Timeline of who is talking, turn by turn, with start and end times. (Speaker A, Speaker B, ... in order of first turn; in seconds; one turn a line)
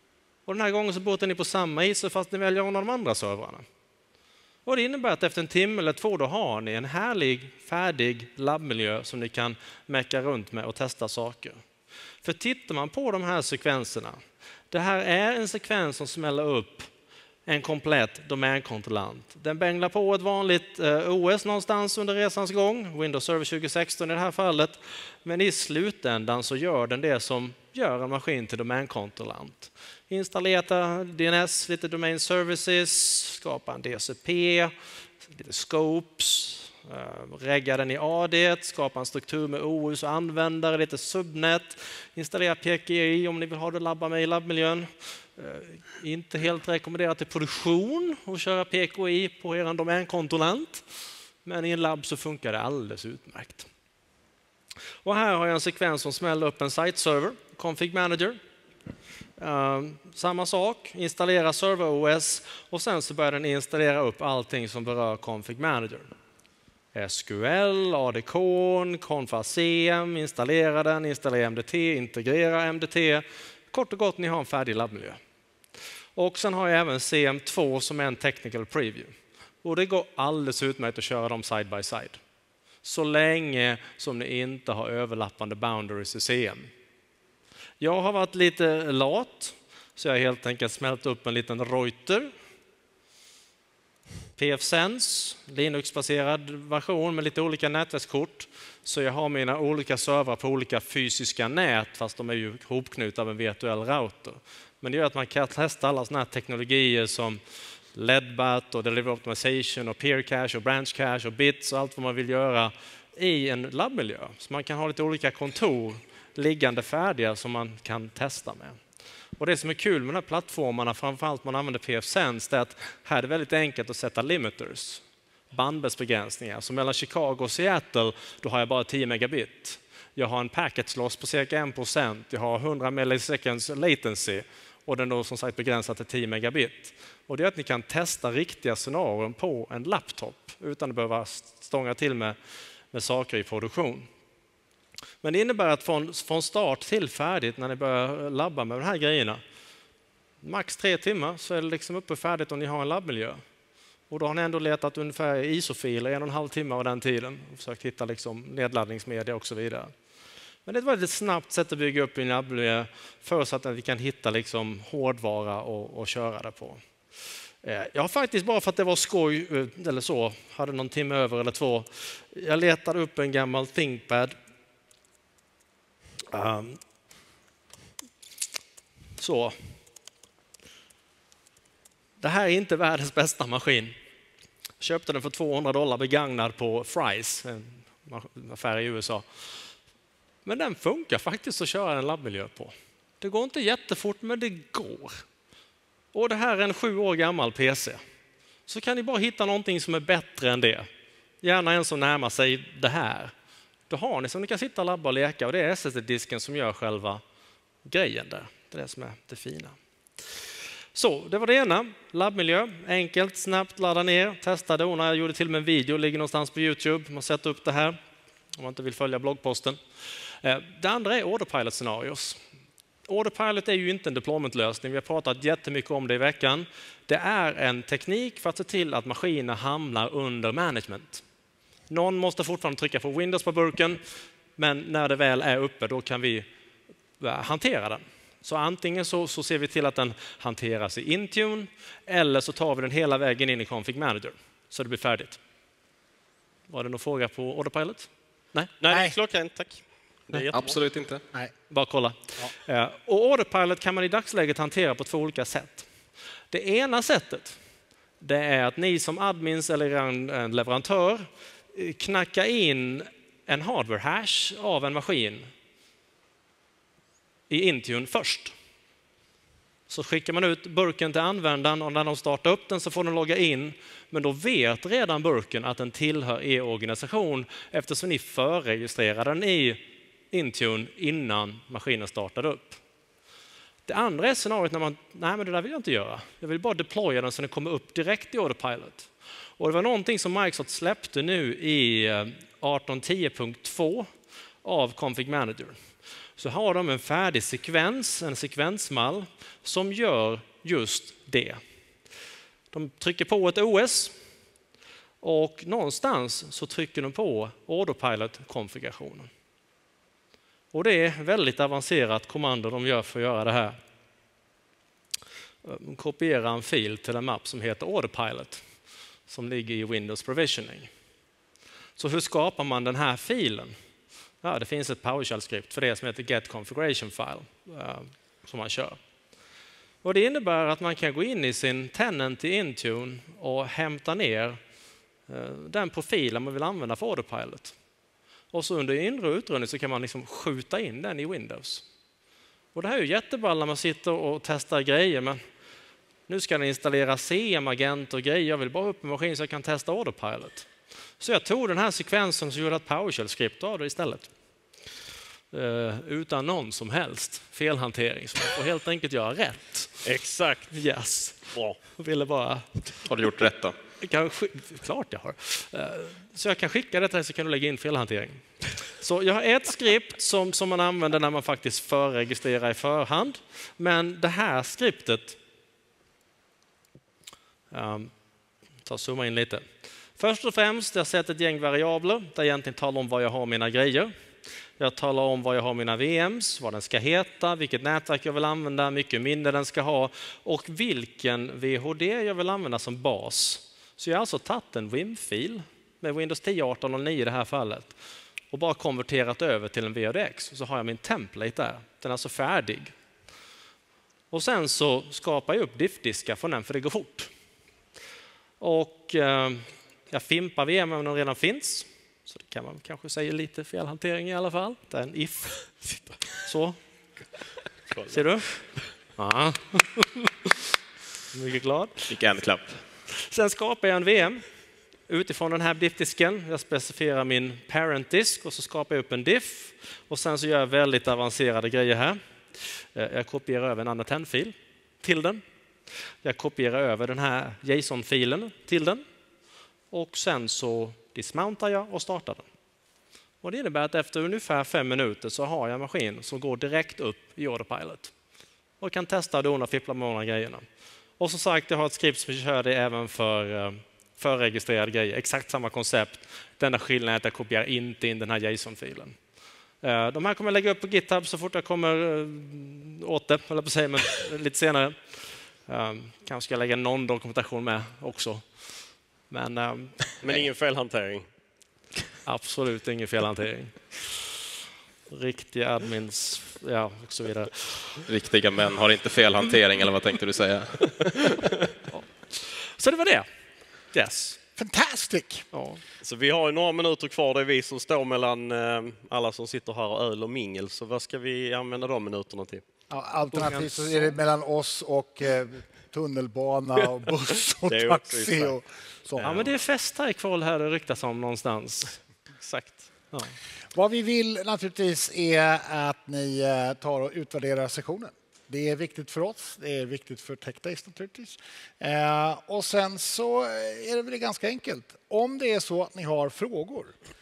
Speaker A: 0.5-3.6
Speaker A: 4.7-11.6
Speaker A: 12.2-16.9
Speaker A: 17.4-34.7
Speaker A: 35.3-50.8
Speaker A: 51.4-53.7
Speaker A: 55.0-58.4
Speaker A: 59.4-66.1
Speaker A: 66.9-75.2
Speaker A: 76.2-82.2
Speaker A: 82.8-86.7
Speaker A: 87.8-92.3
Speaker A: 94.3-107.4
Speaker A: 107.9-118.8
Speaker A: 119.4-142.3
Speaker A: 142.9-144.1
Speaker A: 145.2-149.4
Speaker A: 150.4-153.4
Speaker A: 154.1-159.9
Speaker A: 160.7-166.8
Speaker A: 167.6-174.3
Speaker A: 176.3-176.8
Speaker A: 179.2-179.7
Speaker A: 182.2-183.9
Speaker A: 184.8-189.2
Speaker A: 190.4-195.2
Speaker A: 196.1-198.0
Speaker A: 198.7-200.9
Speaker A: 201.4-203.3
Speaker A: 203.9-207.2
Speaker A: 207.8-209.8
Speaker A: 210.9-218.0
Speaker A: 218.6-219.8
Speaker A: 220.4-222.4
Speaker A: 223.1-231.2
Speaker A: 231.9-234.0
Speaker A: 234.6-236.5
Speaker A: 237.2-245.4
Speaker A: 246.7-248.7
Speaker B: 248.8-250.7
Speaker C: 250.5-251.2
Speaker A: 251.7-255.9
Speaker A: 256.5-257.6
Speaker A: 258.2-265.5
Speaker A: 267.5-268.5
Speaker A: 269.9-282.8
Speaker A: 283.9-294.1
Speaker A: 294.6-295.8
Speaker A: 296.4-301.6
Speaker A: 302.7-304.1
Speaker A: 305.2-309.3
Speaker A: 310.7-313.8
Speaker A: 315.6-318.6
Speaker A: 319.3-320.9
Speaker A: 322.0-323.8
Speaker A: 324.4-329.0
Speaker A: 330.0-334.6
Speaker A: 335.3-337.8
Speaker A: 338.5-341.9
Speaker A: 342.7-345.4
Speaker A: 346.3-350.7
Speaker A: 351.2-354.3
Speaker A: 355.5-360.0
Speaker B: 360.0-360.7
Speaker A: 360.7-361.4
Speaker B: 361.5-361.8
Speaker A: 361.9-362.8
Speaker C: 363.0-363.8
Speaker A: 364.0-375.4
Speaker A: 377.7-378.1
Speaker A: 378.8-379.6
Speaker A: 380.1-384.1
Speaker A: 384.8-397.9
Speaker A: 398.5-402.9
Speaker A: 404.3-407.3
Speaker A: 408.6-415.8
Speaker A: 416.4-416.8
Speaker A: 418.1-420.3
Speaker A: 421.3-422.1
Speaker C: 422.1-422.8
Speaker A: 423.1-424.4
Speaker A: 425.1-435.4
Speaker A: 436.2-439.0
Speaker A: 439.9-442.5
Speaker A: 443.4-448.1
Speaker A: 448.8-450.6
Speaker A: 451.2-459.2
Speaker A: 459.8-468.5
Speaker A: 469.3-470.0
Speaker B: 470.2-471.2
Speaker A: 472.2-474.1
Speaker A: 475.1-478.0
Speaker C: 478.1-481.4
Speaker A: 481.9-483.3
Speaker A: 483.9-484.4
Speaker D: 484.6-485.4
Speaker A: 485.5-485.8
Speaker B: 486.0-492.6
Speaker D: 492.9-499.5
Speaker A: 493.3-494.1
Speaker B: 497.6-498.5
Speaker B: 499.2-499.5
Speaker A: 499.2-501.9
Speaker B: 502.4-502.9
Speaker D: 503.7-516.9